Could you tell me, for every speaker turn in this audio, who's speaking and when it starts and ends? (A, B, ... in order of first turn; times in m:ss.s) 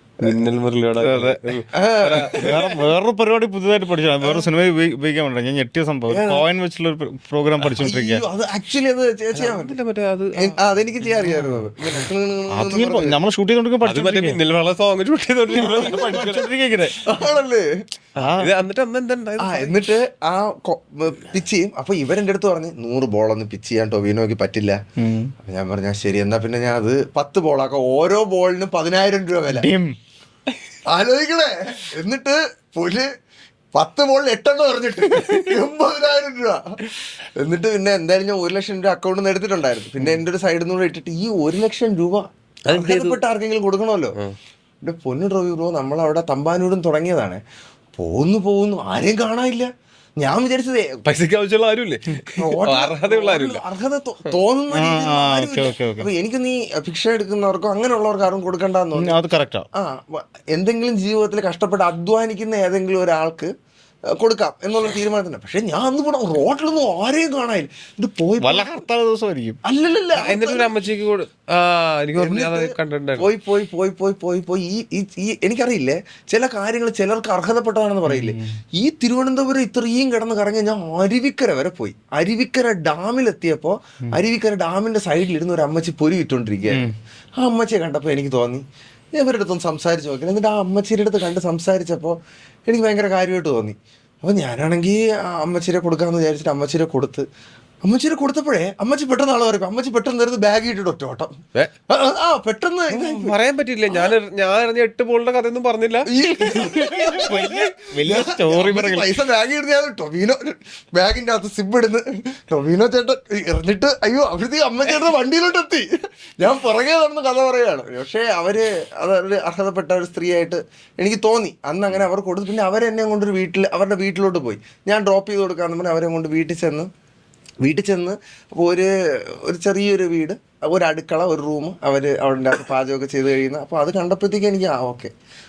0:00.2-0:02.8 A
0:01.0-0:01.4 B
0:01.7-0:02.6 C
0:02.4-0:08.2 B
0:04.2-0:04.5 C
0:06.1-0:06.4 C
0:07.8-0:09.8 C
0:09.3-0:12.1 A
0:10.4-0:13.2 C
0:12.5-0:14.4 B
0:13.8-0:16.9 A
0:15.5-0:17.0 B
0:16.9-0:17.7 C
0:18.2-0:19.8 A
0:18.2-0:18.5 B
0:19.4-0:24.8 C
0:25.0-0:25.3 B
0:25.4-0:29.7 C
0:29.5-0:30.0 B
0:30.9-0:33.1 C
0:33.7-0:44.2 C
0:42.7-0:43.2 A
0:44.8-0:47.4 C
0:48.0-0:51.0 C
0:51.0-0:53.6 A
0:52.4-0:59.2 C
0:54.7-0:56.1 B
0:59.0-0:59.6 B
0:59.7-1:03.5 C
1:04.1-1:08.7 C
1:08.4-1:09.6 B
1:09.6-1:10.8 C
1:10.1-1:13.3 A
1:12.2-1:26.9 C
1:18.1-1:18.5 B
1:27.4-1:28.6 C
1:29.1-1:37.2 C
1:37.8-1:41.3 C
1:41.9-1:43.4 C
1:42.9-1:46.8 A
1:43.9-1:44.1 C
1:46.1-1:55.9 C
1:46.9-1:49.1 B
1:56.4-2:06.9 C
2:07.6-2:15.1 C